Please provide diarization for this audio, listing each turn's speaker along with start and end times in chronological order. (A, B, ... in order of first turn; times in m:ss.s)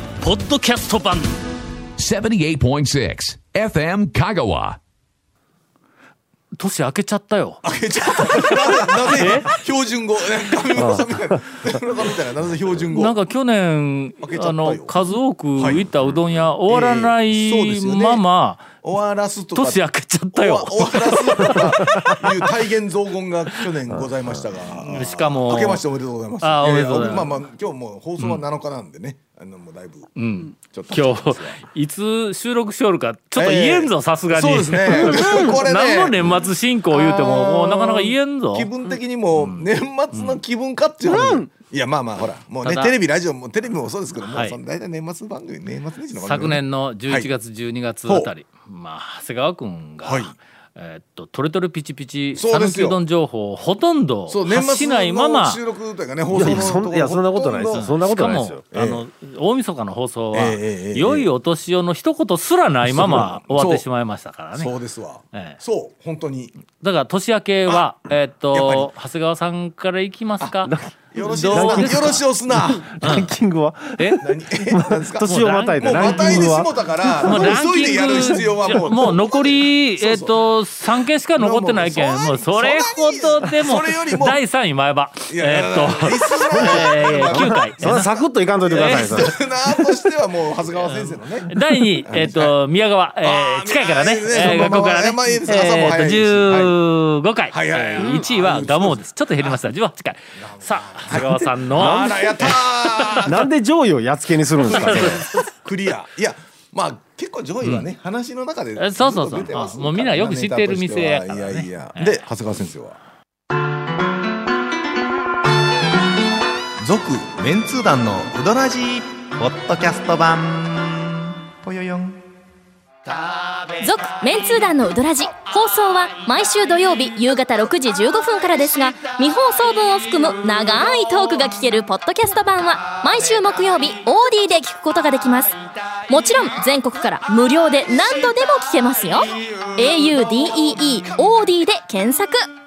0:00.2-0:01.3 A
0:02.0-0:04.8 B
0:06.6-0:07.6 A
0:07.6-0:13.2 C
0:08.2-0:09.5 A
0:10.8-0:11.2 D
0:12.9-0:18.7 A
0:14.2-0:14.9 C
0:15.6-0:15.8 C
0:16.7-0:18.2 C
0:18.8-0:31.6 C
0:19.6-0:22.2 A
0:24.9-0:25.8 A
0:26.4-0:27.4 A
0:30.2-0:38.7 A
0:33.4-0:47.3 C
0:39.4-0:40.4 A
0:41.0-0:41.5 D
0:42.6-0:42.9 A
0:44.2-0:44.6 A
0:46.2-0:55.6 A
0:48.1-0:48.3 C
0:50.0-0:50.3 C
0:52.4-0:53.0 C
0:54.3-0:57.9 C
0:56.3-0:58.6 D
0:57.7-1:04.7 A
0:58.7-0:59.0 C
1:00.3-1:01.3 C
1:02.8-1:03.8 C
1:04.5-1:06.6 C
1:05.3-1:05.6 A
1:06.7-1:12.2 A
1:08.5-1:08.9 C
1:10.6-1:10.9 D
1:11.1-1:12.9 C
1:11.5-1:18.4 D
1:13.0-1:13.4 A
1:14.2-1:20.4 C
1:15.2-1:16.6 A
1:17.2-1:28.1 A
1:21.4-1:24.4 C
1:25.3-1:27.7 C
1:26.6-1:29.3 D
1:28.7-1:32.6 C
1:28.7-1:29.3 A
1:30.8-1:43.3 A
1:33.2-1:36.8 C
1:37.5-1:39.6 C
1:40.4-1:43.4 C
1:41.8-1:42.6 D
1:43.1-1:45.2 D
1:44.6-1:45.5 A
1:44.7-1:53.0 C
1:47.6-1:47.9 A
1:48.8-1:52.3 A
1:56.8-2:02.2 E
2:03.8-2:15.6 F
2:16.1-2:22.5 F